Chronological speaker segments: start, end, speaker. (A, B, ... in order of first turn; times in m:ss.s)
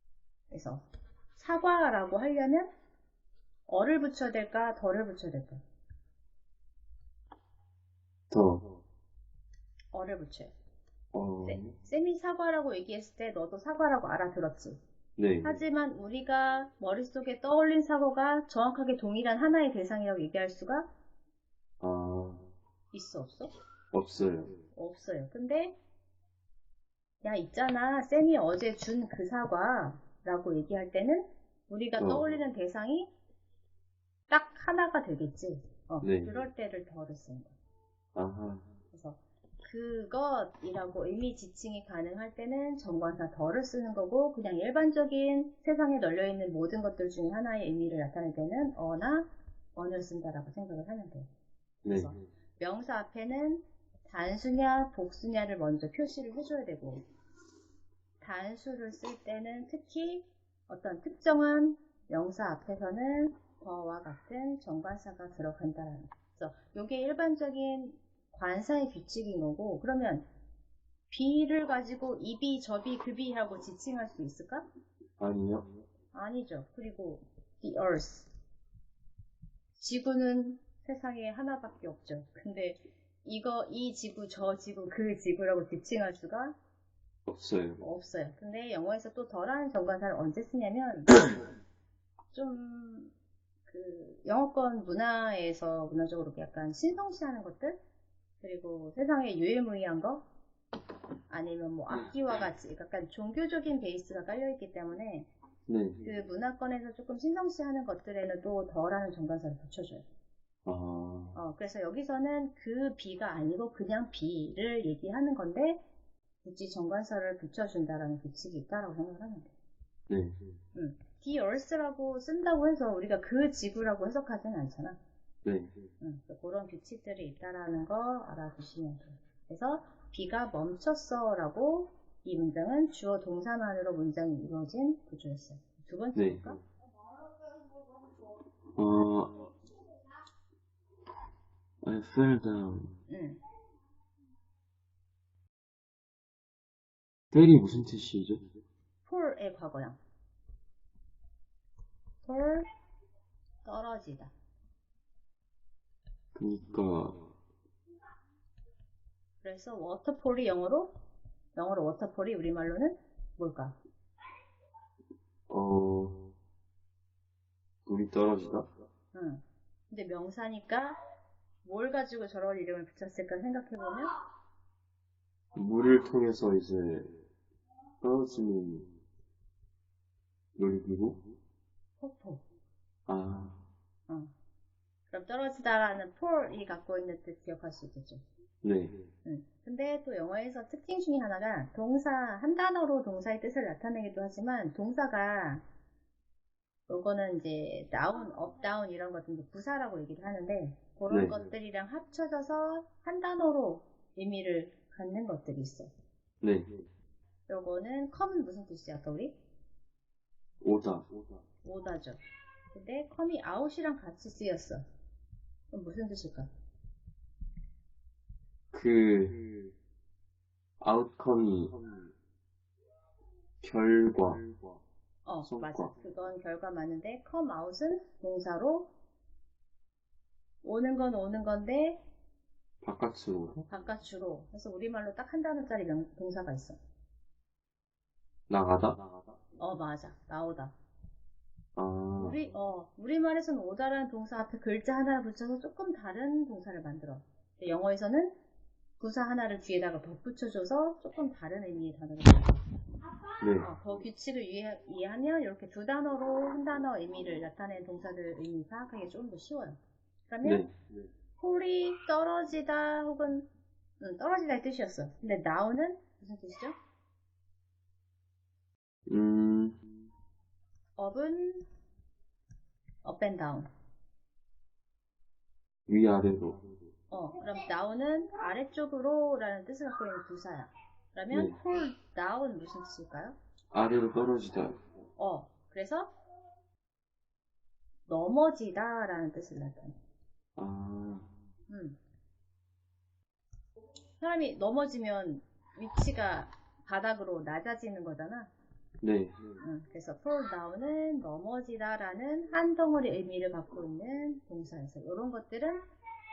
0:00.5-0:02.7 A
0:03.7-0:05.6 A
0:08.3-0:08.6 B
0:09.9-0:10.5 A
0:11.1-0:11.7 B
0:11.4-0:14.8 A
0:15.2-0:15.6 B
0:15.4-0:20.9 A
0:21.8-0:22.5 B
0:22.9-0:23.5 A
0:23.9-0:24.5 B
0:24.7-0:25.8 A
0:27.2-0:33.1 A
0:32.0-0:32.3 B
0:34.3-0:37.5 A
0:36.0-0:36.4 B
0:38.1-0:38.6 B
0:38.9-0:51.3 A
0:51.8-0:52.1 B
0:51.9-0:57.0 A
0:58.2-1:10.2 A
1:11.1-1:14.6 A
1:15.2-1:15.6 B
1:16.1-1:18.3 A
1:19.8-1:26.6 A
1:27.3-1:27.8 B
1:27.8-1:31.2 A
1:32.3-1:33.1 A
1:33.7-1:37.8 A
1:38.4-1:40.2 A
1:41.3-1:45.3 A
1:45.7-1:46.0 B
1:46.0-1:50.0 A
1:50.6-1:51.4 B
1:51.3-1:55.8 A
1:56.4-1:59.5 A
2:00.1-2:00.4 B
2:00.7-2:05.0 A
2:05.4-2:05.7 B
2:06.0-2:16.6 A
2:16.1-2:16.6 B
2:18.7-2:19.5 B
2:21.8-2:22.9 B
2:23.1-2:23.4 A
2:27.3-2:28.4 B
2:29.0-2:30.0 A
2:32.2-2:32.6 A
2:33.6-2:34.3 A
2:36.3-2:37.2 B
2:39.4-2:40.9 A
2:41.5-2:43.8 A
2:45.5-2:46.2 B
2:47.8-2:48.7 B
2:49.1-2:51.0 A
2:51.6-2:54.1 A
2:55.5-2:57.1 B
2:58.0-2:58.8 B
3:00.6-3:01.2 B
3:02.0-3:02.4 A
3:03.0-3:03.6 B
3:05.1-3:08.2 A
3:08.6-3:08.9 B
3:09.2-3:15.6 A
3:16.9-3:25.9 A
3:21.1-3:21.4 B
3:26.4-3:26.7 B
3:27.5-3:29.4 A
3:30.6-3:31.1 B
3:31.6-3:32.2 A
3:32.7-3:34.8 A
3:35.7-3:36.5 A
3:38.7-3:39.4 B
3:40.8-3:41.8 B
3:43.6-3:44.4 B
3:45.2-3:48.9 A
3:45.4-3:45.9 B
3:50.6-3:52.0 A
3:52.8-3:53.6 B
3:53.7-3:56.8 A
3:58.5-3:59.1 B
3:59.6-4:00.7 A
4:01.8-4:02.4 B
4:02.2-4:08.3 A
4:09.0-4:12.6 A
4:13.4-4:13.7 B
4:13.6-4:20.6 A
4:20.4-4:20.7 B
4:21.4-4:23.5 A
4:24.0-4:26.8 A
4:29.1-4:29.8 B
4:31.0-4:31.6 A
4:33.0-4:33.7 A
4:35.9-4:36.6 B
4:37.1-4:43.4 A
4:41.3-4:41.6 B
4:43.7-4:44.8 B
4:45.2-4:46.1 A
4:48.1-4:49.9 A
4:50.6-4:51.3 B
4:51.7-4:52.0 A
4:54.2-4:58.5 A
4:59.0-4:59.4 B
4:59.6-5:05.8 A